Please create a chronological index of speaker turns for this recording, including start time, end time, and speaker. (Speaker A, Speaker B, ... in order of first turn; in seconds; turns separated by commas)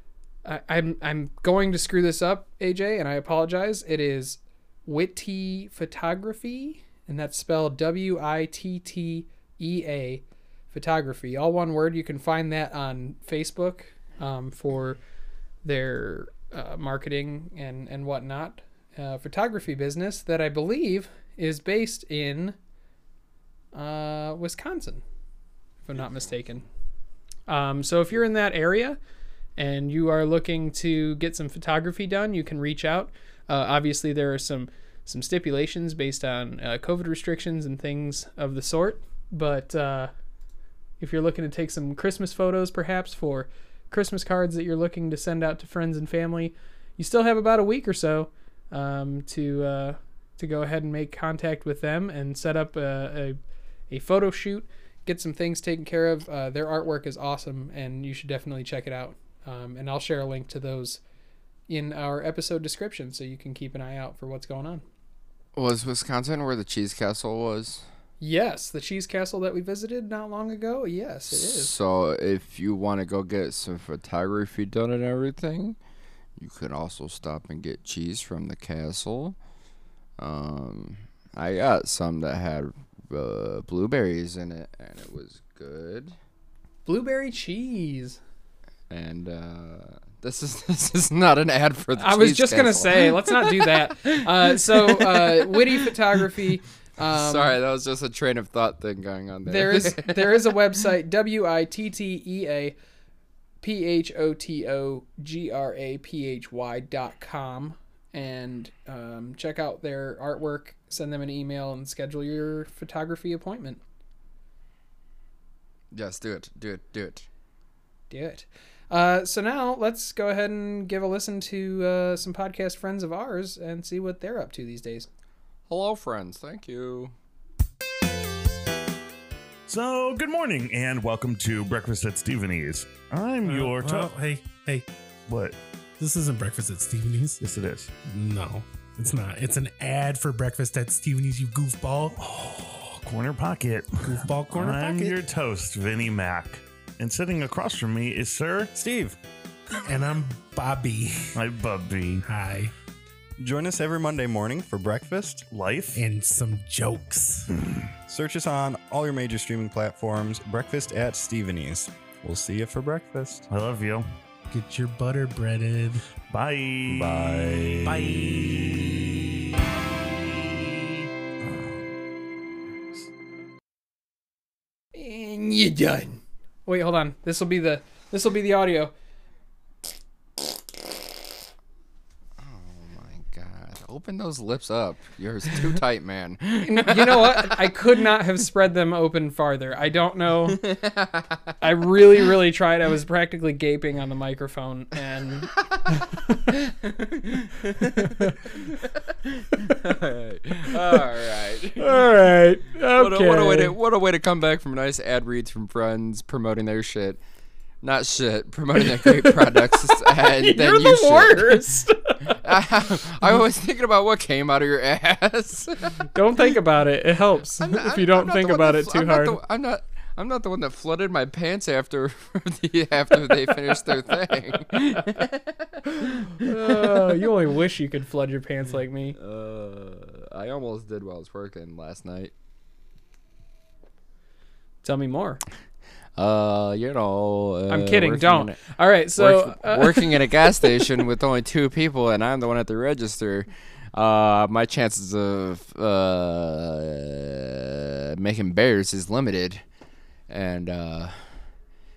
Speaker A: 0.4-15.0, Speaker A: 15.6-22.6, Speaker A: 23.7-25.0, Speaker A: 25.8-26.6, Speaker A: 27.5-29.0, Speaker A: 29.6-40.1, Speaker A: 41.0-53.4, Speaker A: 53.9-61.0, Speaker A: 61.7-64.8, Speaker B: 65.5-67.8, Speaker A: 68.2-71.7, Speaker B: 71.3-75.8, Speaker B: 76.4-79.4, Speaker B: 80.2-86.2, Speaker A: 86.8-88.2, Speaker B: 88.9-95.9, Speaker A: 92.0-97.5, Speaker B: 97.1-100.6, Speaker A: 99.5-102.7, Speaker A: 103.6-113.8, Speaker B: 115.9-117.3, Speaker A: 118.1-125.1, Speaker B: 125.7-127.1, Speaker C: 129.7-134.1, Speaker D: 133.4-134.9, Speaker C: 135.3-135.6, Speaker D: 136.0-137.4, Speaker C: 137.4-137.9, Speaker D: 138.1-143.0, Speaker C: 143.0-149.1, Speaker D: 144.0-145.1, Speaker E: 148.8-149.1, Speaker D: 149.8-151.4, Speaker C: 151.3-152.2, Speaker D: 152.2-152.7, Speaker E: 153.4-155.5, Speaker C: 155.5-156.0, Speaker D: 155.9-157.5, Speaker E: 158.1-163.5, Speaker C: 163.5-164.1, Speaker D: 164.5-166.1, Speaker C: 166.3-169.1, Speaker D: 167.8-169.1, Speaker A: 174.9-178.9, Speaker B: 182.4-187.8, Speaker A: 186.6-190.6, Speaker B: 190.5-191.6, Speaker A: 191.6-196.4, Speaker B: 195.5-195.8, Speaker B: 196.5-202.2, Speaker A: 197.9-198.5, Speaker A: 201.8-203.7, Speaker B: 202.9-207.2, Speaker B: 207.8-211.7, Speaker A: 208.8-212.4, Speaker B: 212.3-216.1, Speaker A: 216.1-219.4, Speaker B: 217.6-227.3, Speaker A: 224.9-225.2, Speaker A: 226.0-229.2, Speaker B: 229.2-232.3, Speaker A: 234.8-235.4, Speaker B: 236.2-238.6, Speaker A: 237.7-240.9, Speaker B: 239.2-249.6, Speaker B: 250.3-251.5